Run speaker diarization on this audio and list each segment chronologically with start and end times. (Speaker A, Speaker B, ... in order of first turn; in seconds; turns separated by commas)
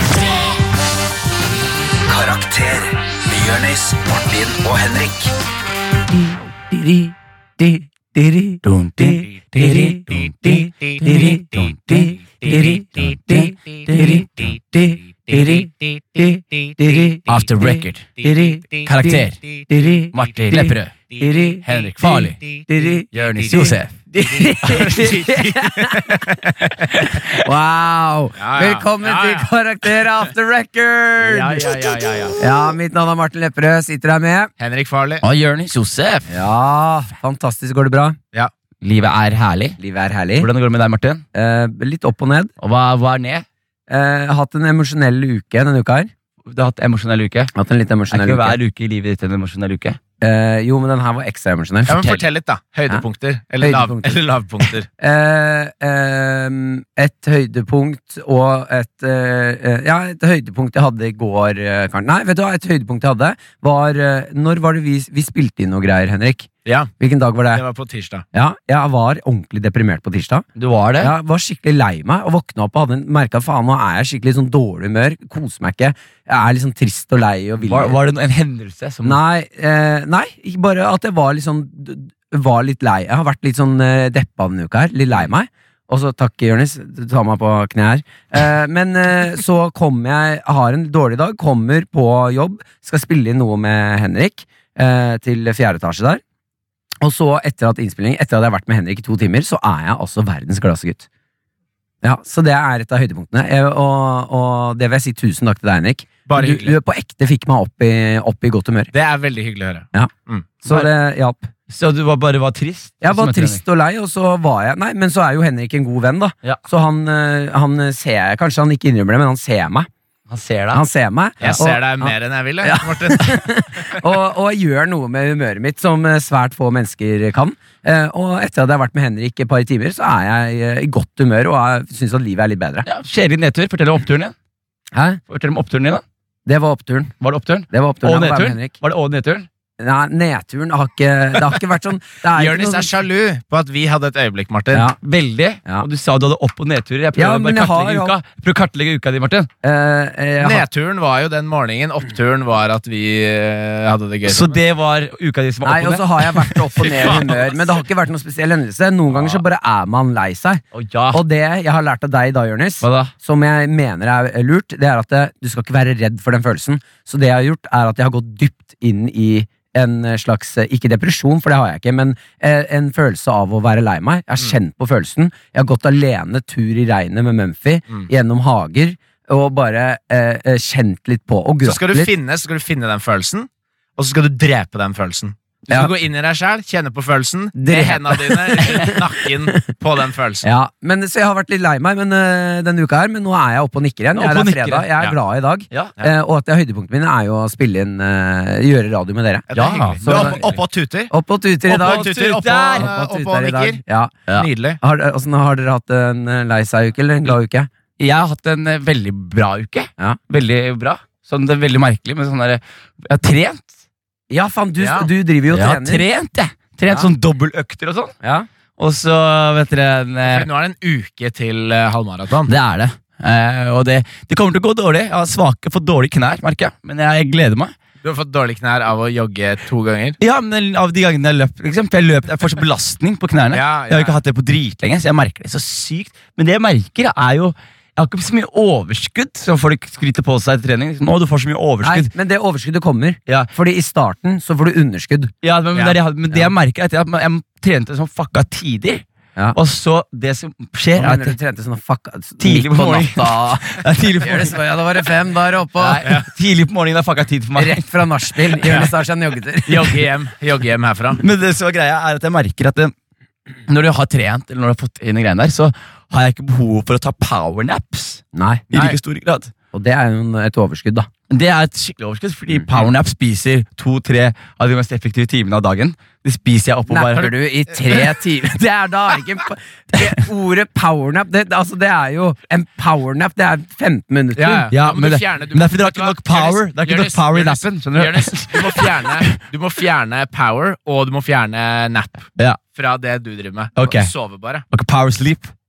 Speaker A: 2.0-5.3, Speaker B: 6.7-26.2, Speaker C: 8.6-14.5, Speaker C: 17.2-18.2, Speaker C: 18.8-19.4, Speaker C: 20.1-21.0, Speaker C: 21.6-22.4, Speaker C: 23.1-23.9, Speaker D: 24.3-26.9, Speaker B: 26.9-34.5, Speaker D: 28.4-29.5, Speaker D: 31.2-32.4, Speaker D: 34.6-35.2, Speaker C: 35.2-36.3, Speaker B: 36.3-38.2, Speaker C: 38.8-39.8, Speaker B: 39.8-40.5, Speaker C: 40.4-41.2, Speaker B: 41.3-42.5, Speaker C: 42.6-43.5, Speaker B: 43.9-46.1, Speaker C: 46.5-47.5, Speaker B: 47.5-48.6, Speaker C: 48.1-50.0, Speaker B: 50.2-52.2, Speaker D: 51.9-54.9, Speaker B: 53.6-54.2, Speaker B: 55.0-66.5, Speaker D: 66.7-66.9, Speaker B: 67.0-67.6, Speaker D: 67.5-68.2, Speaker B: 68.3-70.4, Speaker C: 70.5-71.1, Speaker B: 71.0-78.0, Speaker C: 77.6-79.2, Speaker B: 79.0-96.2, Speaker B: 97.0-101.0, Speaker B: 102.0-108.9, Speaker D: 106.3-106.8, Speaker D: 108.9-110.4, Speaker B: 110.6-111.5, Speaker C: 111.7-113.6, Speaker B: 113.0-119.9, Speaker C: 120.3-120.8, Speaker B: 120.7-132.8, Speaker D: 121.4-123.4, Speaker C: 132.8-134.3, Speaker B: 134.9-135.2, Speaker C: 135.3-136.0, Speaker B: 136.4-137.1, Speaker C: 137.2-139.5, Speaker B: 137.7-138.7, Speaker B: 139.8-142.9, Speaker D: 142.3-144.9, Speaker C: 144.9-149.5, Speaker B: 147.2-148.2, Speaker B: 149.6-150.6, Speaker D: 150.4-154.6, Speaker C: 154.2-157.3, Speaker B: 155.6-182.1, Speaker C: 159.1-159.4, Speaker C: 160.7-161.2, Speaker C: 162.8-163.1, Speaker D: 181.6-190.4, Speaker B: 187.6-189.0, Speaker B: 190.4-199.5, Speaker C: 194.1-194.9, Speaker D: 199.5-201.1, Speaker C: 199.5-200.5, Speaker B: 200.0-200.5, Speaker B: 201.1-202.1, Speaker D: 201.7-203.8, Speaker C: 201.7-202.9, Speaker B: 202.8-204.1, Speaker D: 204.3-204.8, Speaker B: 204.8-207.7, Speaker C: 208.0-213.7, Speaker B: 214.3-216.0, Speaker D: 214.8-215.1, Speaker C: 215.5-218.1, Speaker B: 218.2-218.5, Speaker C: 218.8-220.5, Speaker D: 220.3-222.5, Speaker C: 222.4-227.7, Speaker D: 228.0-230.2, Speaker C: 230.2-242.1, Speaker D: 233.5-234.2, Speaker B: 241.8-245.3, Speaker C: 245.4-251.4, Speaker B: 250.9-253.6, Speaker C: 252.4-254.6, Speaker B: 254.2-256.0, Speaker C: 255.8-257.9, Speaker B: 257.6-260.0, Speaker D: 258.6-258.9, Speaker D: 259.6-261.2, Speaker C: 261.2-262.9, Speaker C: 263.7-269.5, Speaker B: 268.3-268.7, Speaker B: 269.7-271.1, Speaker C: 271.3-277.3, Speaker B: 276.9-284.7, Speaker D: 277.1-278.1, Speaker D: 284.3-294.6, Speaker C: 284.7-289.3, Speaker C: 293.8-294.1, Speaker C: 294.7-295.5